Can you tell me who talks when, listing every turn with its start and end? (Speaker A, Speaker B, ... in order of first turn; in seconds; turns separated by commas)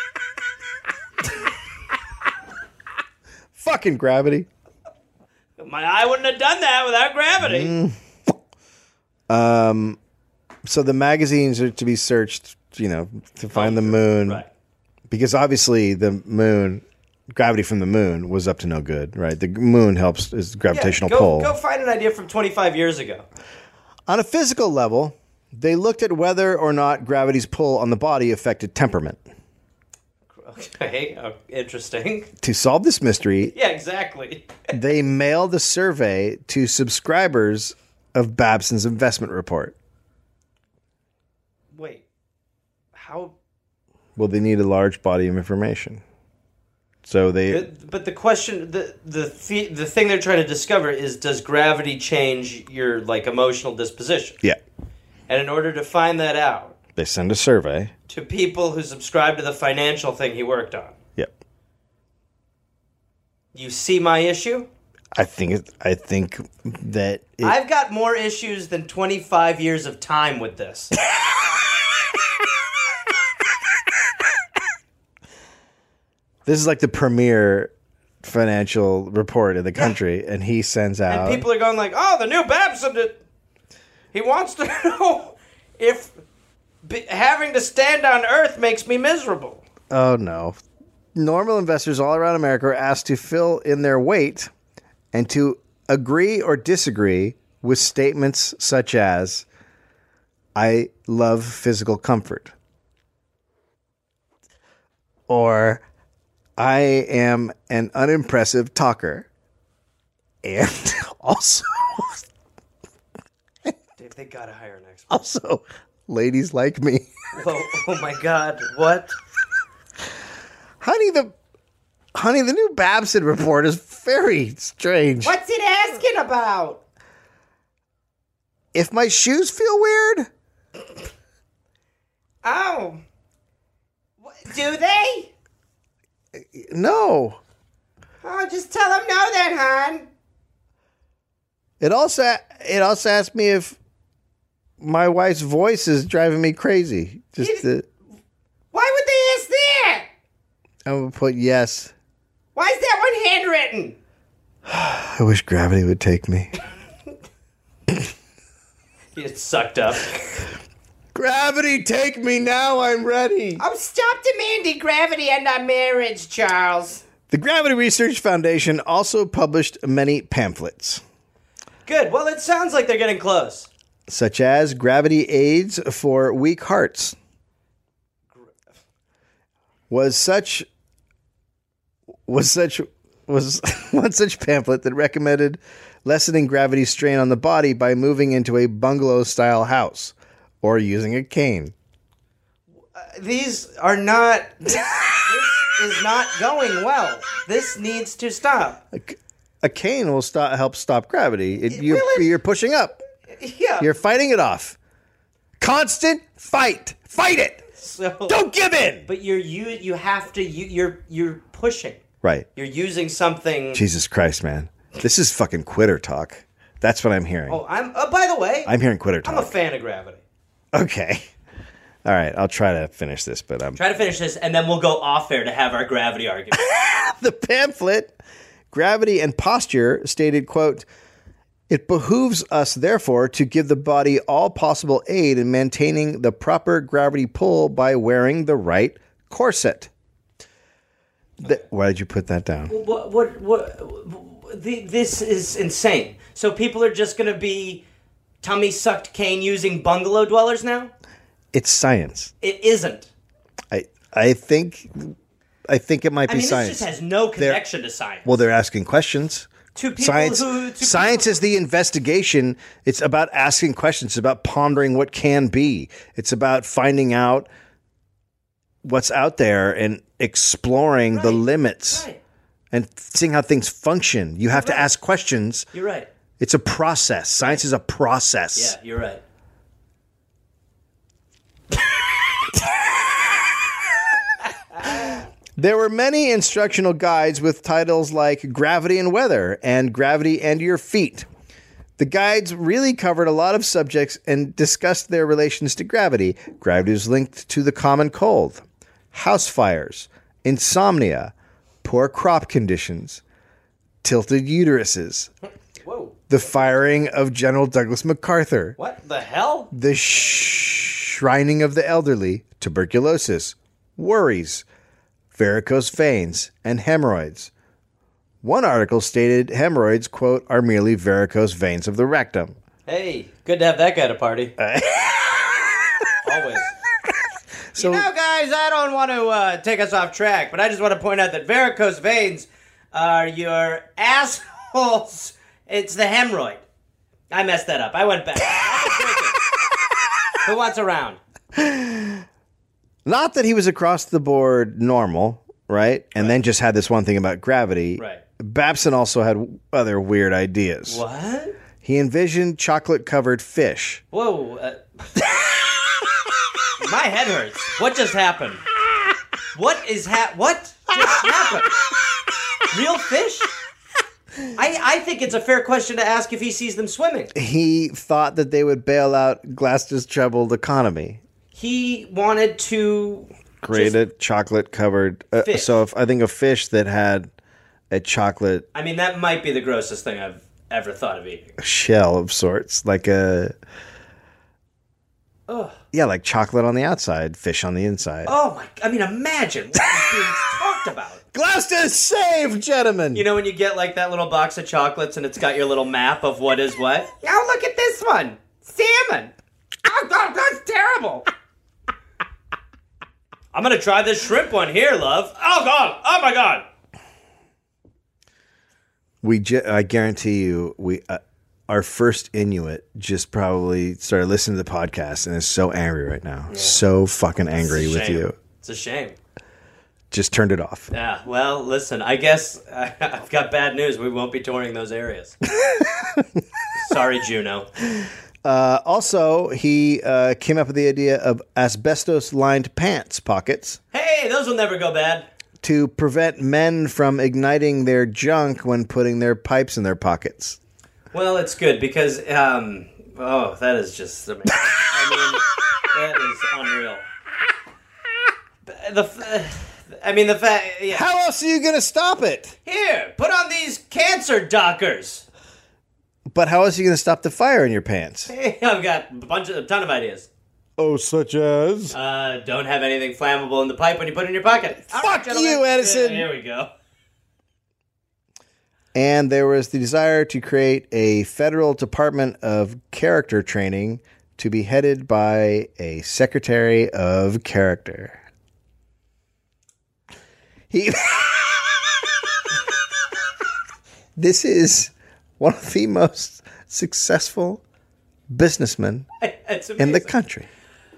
Speaker A: 3.5-4.5, Speaker B: 5.6-7.7, Speaker A: 7.4-8.0, Speaker A: 9.3-10.0, Speaker A: 10.7-14.4, Speaker B: 13.5-14.5, Speaker A: 15.1-21.5, Speaker B: 20.7-23.2, Speaker A: 24.1-29.2, Speaker B: 30.3-32.3, Speaker A: 32.4-33.5, Speaker B: 33.5-34.6, Speaker A: 34.7-39.7, Speaker B: 41.7-42.0, Speaker B: 42.9-43.3, Speaker A: 44.1-46.0, Speaker A: 47.0-47.7, Speaker B: 47.5-54.4, Speaker B: 55.3-56.8, Speaker A: 57.0-57.9, Speaker B: 58.1-60.9, Speaker B: 63.5-64.7, Speaker A: 65.1-67.5, Speaker B: 67.4-70.9, Speaker A: 76.5-81.5, Speaker B: 81.1-83.2, Speaker B: 84.1-86.1, Speaker B: 86.8-89.6, Speaker A: 89.9-90.6, Speaker A: 91.1-94.5, Speaker A: 95.1-99.5, Speaker A: 100.5-102.5, Speaker A: 105.3-105.8, Speaker A: 106.6-109.3, Speaker A: 110.4-112.2, Speaker B: 114.0-115.2, Speaker A: 115.1-117.1, Speaker B: 117.3-119.2, Speaker A: 120.8-121.3, Speaker A: 122.1-125.3, Speaker B: 125.2-126.8, Speaker A: 128.7-130.3, Speaker B: 132.4-133.0, Speaker B: 134.2-135.3, Speaker A: 136.4-137.4, Speaker B: 138.2-140.1, Speaker A: 141.8-143.8, Speaker A: 144.8-147.9, Speaker B: 147.4-147.7, Speaker B: 148.7-150.1, Speaker A: 150.8-151.9, Speaker B: 152.6-154.0, Speaker A: 154.7-156.5, Speaker B: 159.1-160.4, Speaker A: 161.1-163.6, Speaker B: 163.6-167.0, Speaker A: 167.3-171.0, Speaker B: 171.8-173.7, Speaker A: 174.1-177.2, Speaker A: 179.9-180.7, Speaker A: 182.3-191.7, Speaker B: 192.9-198.8, Speaker A: 194.8-195.1, Speaker A: 198.9-203.0, Speaker B: 201.7-202.3, Speaker B: 203.4-203.9, Speaker A: 203.8-204.8, Speaker A: 205.6-207.7, Speaker B: 207.8-208.3, Speaker A: 208.3-209.0, Speaker B: 209.1-212.0, Speaker A: 212.2-212.5, Speaker B: 212.5-213.8, Speaker A: 213.7-217.6, Speaker B: 217.5-218.7, Speaker A: 218.7-219.5, Speaker B: 219.2-220.2, Speaker A: 220.7-221.3, Speaker A: 222.0-223.8, Speaker B: 223.8-226.7, Speaker A: 226.6-228.1, Speaker A: 228.7-230.8, Speaker A: 231.7-239.9, Speaker A: 241.4-242.7, Speaker B: 242.7-247.8, Speaker B: 248.4-250.9, Speaker A: 251.5-252.3, Speaker B: 252.4-253.1, Speaker A: 253.7-255.1, Speaker A: 255.7-257.6, Speaker B: 256.3-258.4, Speaker A: 258.2-267.5, Speaker B: 259.7-261.4, Speaker A: 268.8-272.1, Speaker B: 271.1-272.2, Speaker A: 272.7-275.7, Speaker B: 274.5-274.9, Speaker B: 275.7-276.1, Speaker A: 276.4-278.8, Speaker B: 278.5-279.2, Speaker A: 282.8-283.2, Speaker B: 284.7-285.2, Speaker A: 284.8-291.3, Speaker A: 292.0-303.2, Speaker A: 304.0-305.3, Speaker B: 305.8-306.8, Speaker A: 306.3-308.8, Speaker B: 308.8-309.7, Speaker A: 309.7-314.6, Speaker A: 315.3-317.5, Speaker A: 318.4-322.6, Speaker B: 322.9-324.5, Speaker A: 324.6-326.2, Speaker B: 326.2-326.7, Speaker A: 327.7-328.1, Speaker B: 327.8-336.6, Speaker B: 337.3-339.4, Speaker B: 340.4-341.2, Speaker A: 341.5-342.2, Speaker A: 343.0-351.0, Speaker B: 350.9-351.6, Speaker A: 351.8-354.0, Speaker B: 354.1-355.1, Speaker B: 356.8-358.6, Speaker B: 359.5-361.7, Speaker B: 362.7-363.5, Speaker B: 364.5-367.3, Speaker A: 367.3-371.2, Speaker B: 371.5-374.0, Speaker A: 373.6-377.3, Speaker B: 375.4-375.8, Speaker A: 377.9-378.7, Speaker B: 378.7-381.6, Speaker A: 381.6-383.6, Speaker B: 385.5-385.8, Speaker A: 385.9-388.3, Speaker B: 388.2-391.2, Speaker A: 389.8-390.3, Speaker A: 391.3-393.2, Speaker B: 393.1-399.3, Speaker B: 399.8-401.3, Speaker B: 403.5-406.6, Speaker A: 409.2-418.4, Speaker B: 416.5-416.8, Speaker B: 417.5-419.2, Speaker A: 420.1-420.9, Speaker B: 420.9-425.4, Speaker A: 425.6-426.2, Speaker B: 426.7-427.7, Speaker A: 427.9-433.8, Speaker B: 433.9-435.3, Speaker A: 435.6-440.6, Speaker B: 441.1-447.1, Speaker B: 448.6-451.1, Speaker A: 450.9-452.6, Speaker B: 452.6-455.2, Speaker A: 456.3-458.3, Speaker B: 458.3-460.3, Speaker A: 460.8-461.9, Speaker B: 461.9-466.7, Speaker A: 464.9-466.3, Speaker A: 468.9-478.2, Speaker A: 480.7-482.1, Speaker A: 484.2-487.6, Speaker A: 488.3-489.1, Speaker B: 489.2-490.1, Speaker A: 489.8-490.5